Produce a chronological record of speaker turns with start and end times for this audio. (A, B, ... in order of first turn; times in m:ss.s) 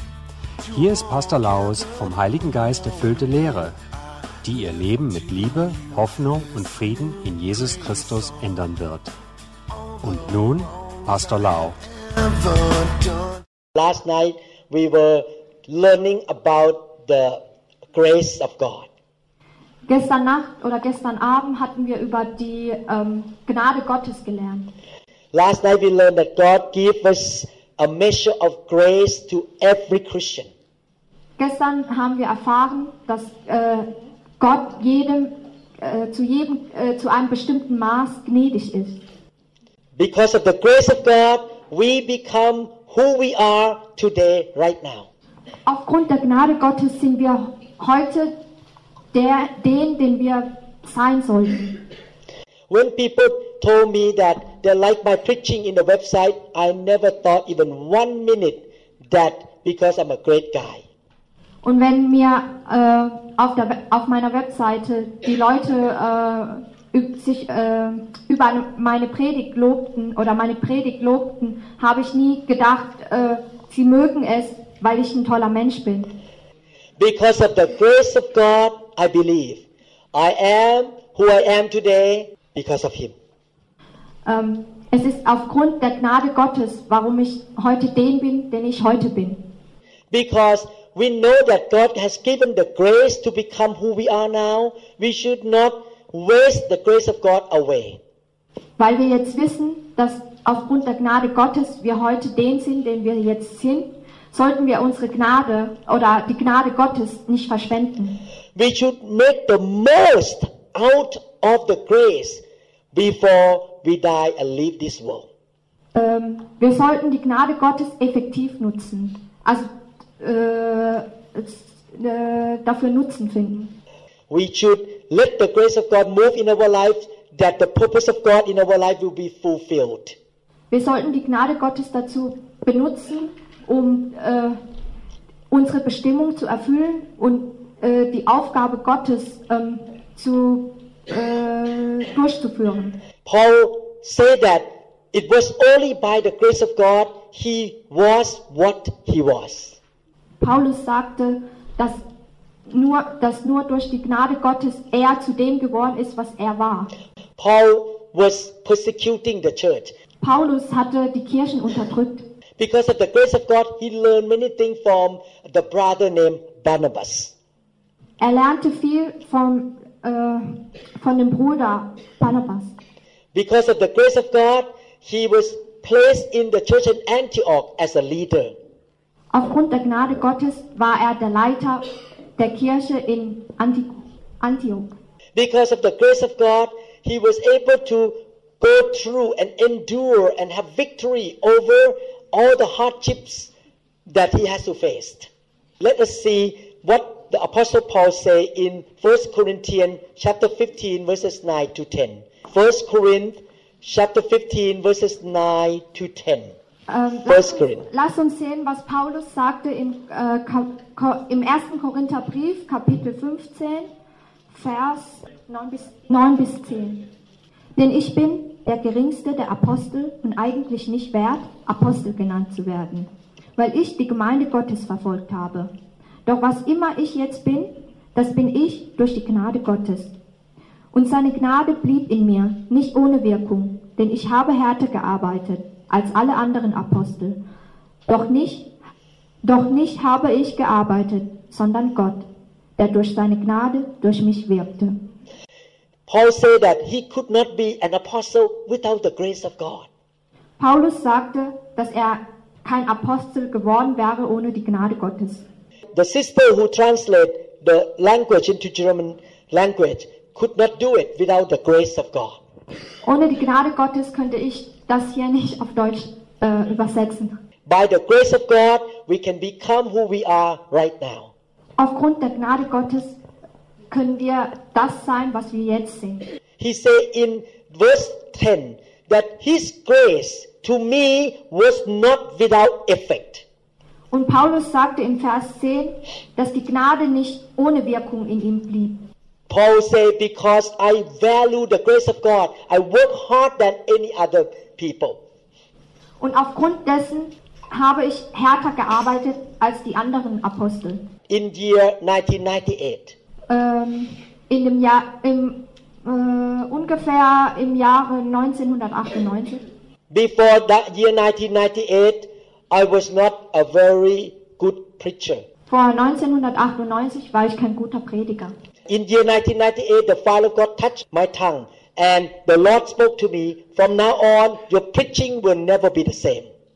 0:00.7-0:03.8 A
0:04.4-0:09.1 A
0:10.0-0:11.8 A
0:13.7-0:17.4 B
0:17.9-0:18.9 B
0:19.9-0:24.7 C
0:25.3-0:30.5 B
0:31.4-0:39.0 C
0:40.0-0:45.1 B
0:45.7-0:48.4 C
0:49.1-0:51.8 C
0:52.7-1:00.8 B
1:01.6-1:16.2 C
1:17.0-1:23.1 B
1:24.2-1:29.4 C
1:30.1-1:38.0 B
1:38.8-1:48.2 C
1:48.6-1:55.3 B
1:55.9-2:03.8 C
2:04.3-2:10.2 B
2:10.7-2:14.6 C
2:15.5-2:23.0 C
2:23.2-2:29.8 B
2:30.4-2:32.0 C
2:32.7-2:36.9 C
2:37.4-2:39.9 B
2:40.2-2:42.2 C
2:42.6-2:47.3 B
2:48.2-2:52.7 C
2:53.3-2:58.6 B
2:59.3-3:04.9 C
3:05.3-3:13.5 B
3:14.1-3:15.3 B
3:15.8-3:26.5 B
3:26.9-3:33.9 C
3:27.3-3:27.8 B
3:34.5-3:37.0 C
3:37.8-3:45.7 C
3:46.2-3:50.1 C
3:50.9-3:57.4 C
3:58.1-3:58.7 C
3:59.4-4:02.2 C
4:02.8-4:05.0 C
4:06.1-4:09.9 B
4:10.6-4:15.4 C
4:15.9-4:22.4 B
4:23.0-4:27.4 C
4:27.7-4:31.3 B
4:31.8-4:33.2 C
4:33.9-4:36.2 C
4:36.6-4:43.4 B
4:44.1-4:49.0 C
4:49.5-4:55.2 B
4:56.2-5:01.0 C
5:01.3-5:03.2 B
5:03.5-5:09.6 C
5:10.1-5:15.4 B
5:15.7-5:18.5 C
5:18.9-5:26.5 B